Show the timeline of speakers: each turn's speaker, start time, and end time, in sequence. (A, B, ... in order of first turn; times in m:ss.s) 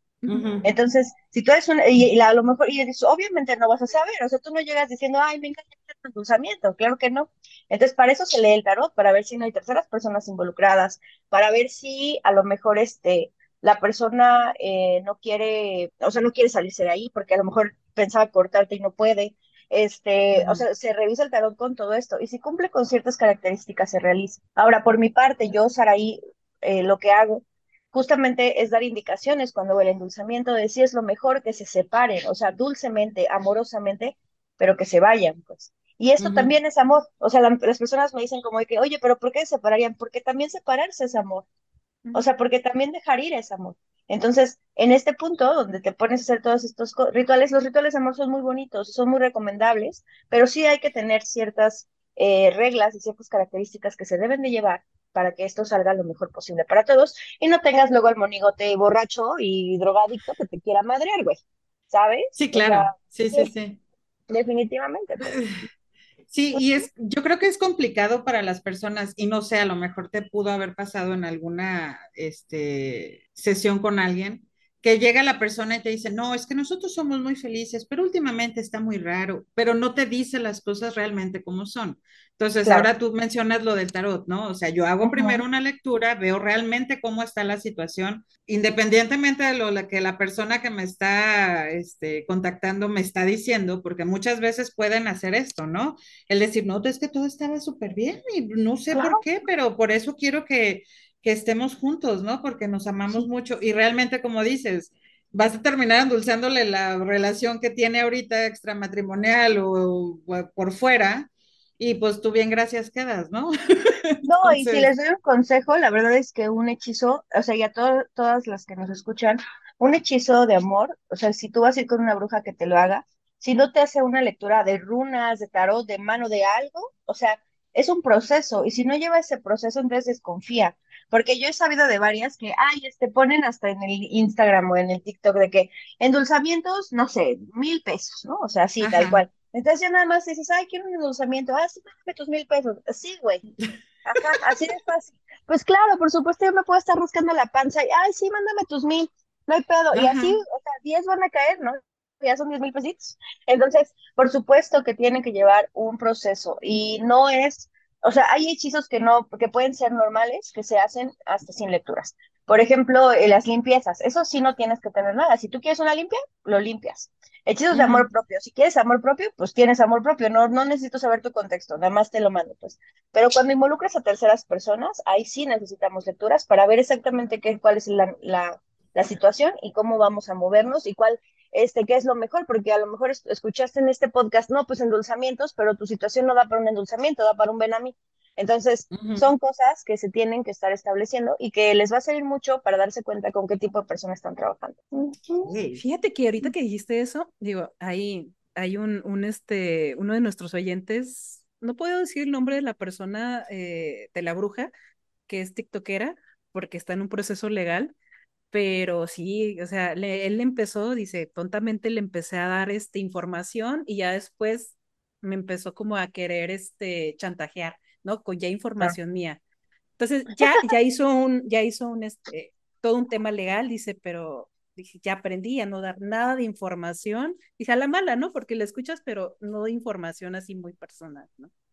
0:00.2-0:00.6 A
0:00.3-0:00.7 B
0:00.6-0:41.5 C
0:20.4-0:20.6 B
0:36.2-0:36.6 B
0:42.1-1:03.5 C
1:02.4-1:03.8 B
1:04.3-1:05.4 C
1:05.2-1:05.6 B
1:06.3-1:54.9 B
1:06.5-1:06.9 C
1:22.6-1:22.9 C
1:25.0-1:25.4 C
1:38.9-1:39.2 C
1:54.2-2:23.4 C
2:18.8-2:19.2 B
2:24.0-3:15.5 C
2:29.9-2:30.4 B
2:47.7-2:48.1 B
3:08.9-3:09.3 B
3:15.4-3:15.8 B
3:15.8-3:24.7 A
3:25.3-3:27.9 A
3:28.5-3:39.4 A
3:40.0-3:51.5 A